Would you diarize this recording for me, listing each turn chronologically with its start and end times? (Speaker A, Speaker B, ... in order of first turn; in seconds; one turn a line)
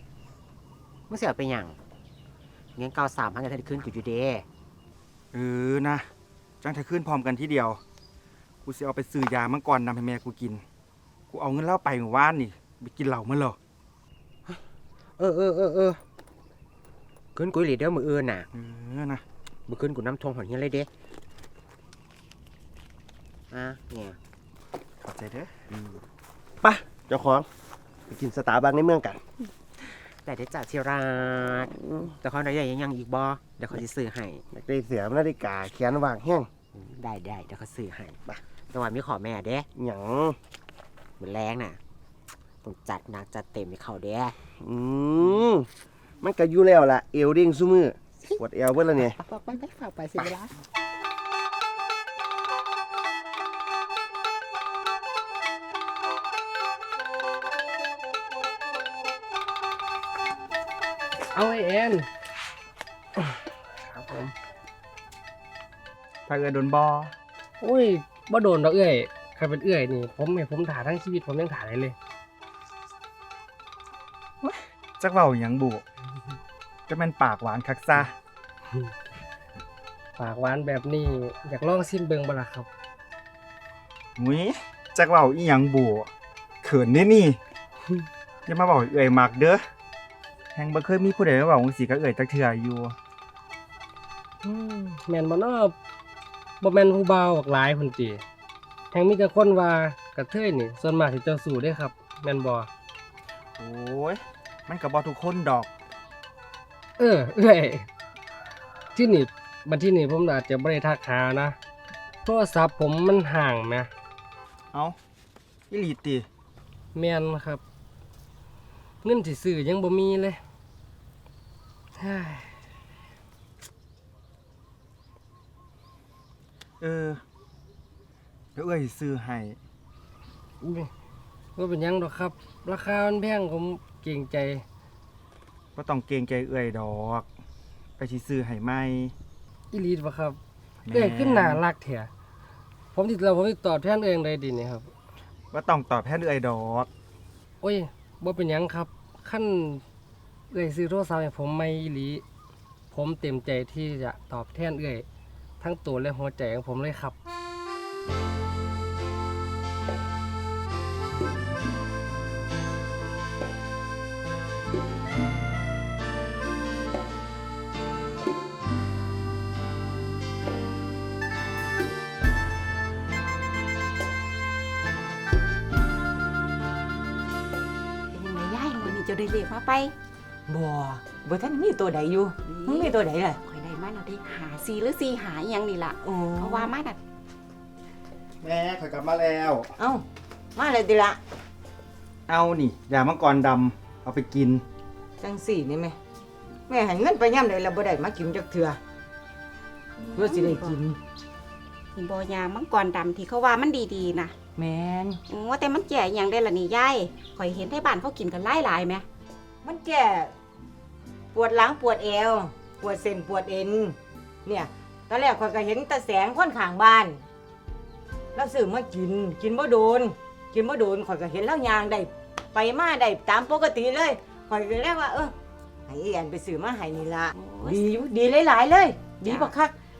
Speaker A: 1.1-1.8
Speaker A: 2.8-4.4
Speaker B: 5.3-6.1
Speaker B: 6.6-7.8
Speaker B: 8.6-10.6
Speaker B: 11.3-13.6
Speaker A: 15.2-16.0
Speaker A: 17.3-18.4
Speaker B: 18.5-19.2
Speaker A: 19.7-20.9
Speaker A: 23.5-24.2
Speaker B: 25.0-25.5
Speaker C: 26.6-27.5
Speaker C: 28.1-29.2
Speaker A: 30.2-34.4
Speaker C: 31.8-32.1
Speaker C: 34.5-36.5
Speaker A: 36.7-38.2
Speaker A: 38.7-39.7
Speaker C: 39.8-40.4
Speaker A: 41.2-41.8
Speaker A: 42.6-44.3
Speaker C: 44.6-45.7
Speaker C: 46.2-49.2
Speaker A: 49.1-50.5
Speaker D: 61.3-62.1
Speaker D: 63.2-64.3
Speaker B: 66.3-67.1
Speaker D: 67.6-71.9
Speaker B: 74.4-75.8
Speaker B: 76.9-78.1
Speaker D: 80.2-82.7
Speaker B: 84.2-86.1
Speaker B: 86.6-87.4
Speaker B: 88.5-89.6
Speaker B: 90.5-93.0
Speaker D: 94.4-95.7
Speaker D: 96.6-98.2
Speaker D: 98.9-102.7
Speaker B: 103.6-105.7
Speaker D: 107.0-107.9
Speaker D: 108.9-111.5
Speaker D: 112.2-113.9
Speaker B: 115.7-116.3
Speaker D: 116.9-117.6
Speaker D: 119.0-120.4
Speaker D: 122.0-122.6
Speaker B: 126.8-127.2
Speaker B: 128.6-129.6
Speaker D: 130.6-130.9
Speaker D: 131.6-134.6
Speaker B: 135.8-137.2
Speaker B: 138.0-139.1
Speaker D: 139.7-140.4
Speaker B: 140.8-141.6
Speaker D: 140.9-142.1
Speaker D: 142.9-144.9
Speaker B: 145.5-146.9
Speaker D: 147.6-149.8
Speaker D: 150.5-152.2
Speaker D: 152.9-155.1
Speaker D: 155.6-157.1
Speaker E: 178.1-179.9
Speaker F: 180.5-183.4
Speaker E: 182.5-187.0
Speaker F: 186.0-186.7
Speaker B: 188.4-189.7
Speaker F: 189.8-190.0
Speaker F: 190.6-191.2
Speaker B: 192.3-194.6
Speaker F: 195.2-195.9
Speaker F: 196.7-198.8
Speaker E: 200.0-200.8
Speaker F: 200.1-201.0
Speaker E: 201.9-204.3
Speaker F: 204.6-205.2
Speaker E: 205.3-209.1
Speaker F: 209.6-210.3
Speaker F: 211.3-217.2
Speaker F: 218.3-225.3
Speaker F: 225.9-229.7
Speaker E: 227.3-227.9
Speaker E: 229.2-229.5